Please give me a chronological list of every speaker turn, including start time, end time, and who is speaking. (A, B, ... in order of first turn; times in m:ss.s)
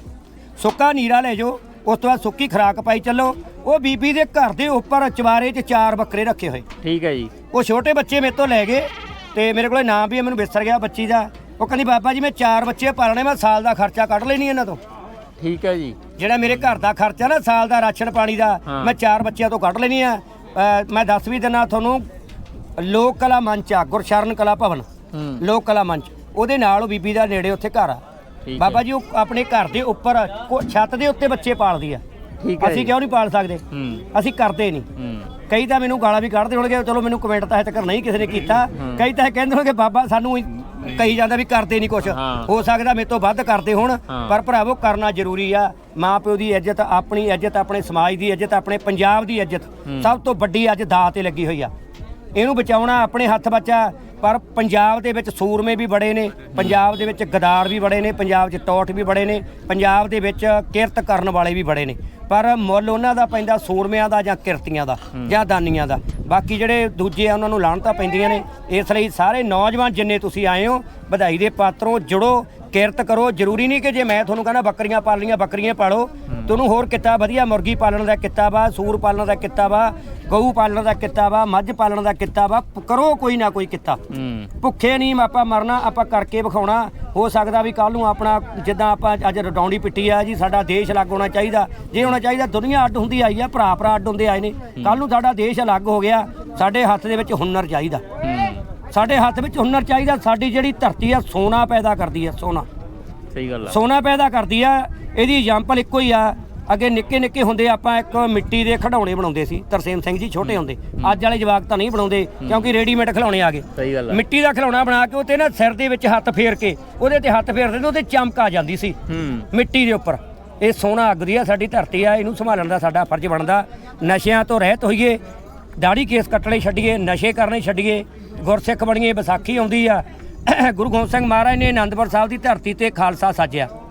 0:00.6-0:06.6 A
0:06.8-0:07.3 B
0:07.5-0:14.8 A
0:15.4-0:16.0 B
0:16.2-0:22.0 A
0:18.7-0:19.0 B
0:22.8-0:24.8 A
0:25.1-0:25.4 B
0:25.4-0:28.0 A
0:28.4-0:28.8 B
0:28.6-0:32.0 A
0:32.4-0:32.9 B
0:32.6-0:34.9 A
0:33.7-0:34.0 B
0:35.0-0:35.3 B
0:35.5-0:51.7 A
0:38.7-0:39.0 B
0:42.0-0:42.5 B
0:44.1-0:44.4 B
0:49.8-0:50.1 B
0:52.3-1:24.0 A
1:24.1-1:24.5 B
1:24.6-1:38.0 A
1:38.2-1:38.6 B
1:38.9-1:42.6 A
1:43.3-1:43.8 B
1:43.7-1:59.0 A
1:50.4-1:51.2 B
1:52.4-1:52.7 B
1:53.8-1:54.2 B
1:59.1-1:59.5 B
1:59.5-2:05.2 A
2:05.8-2:13.7 A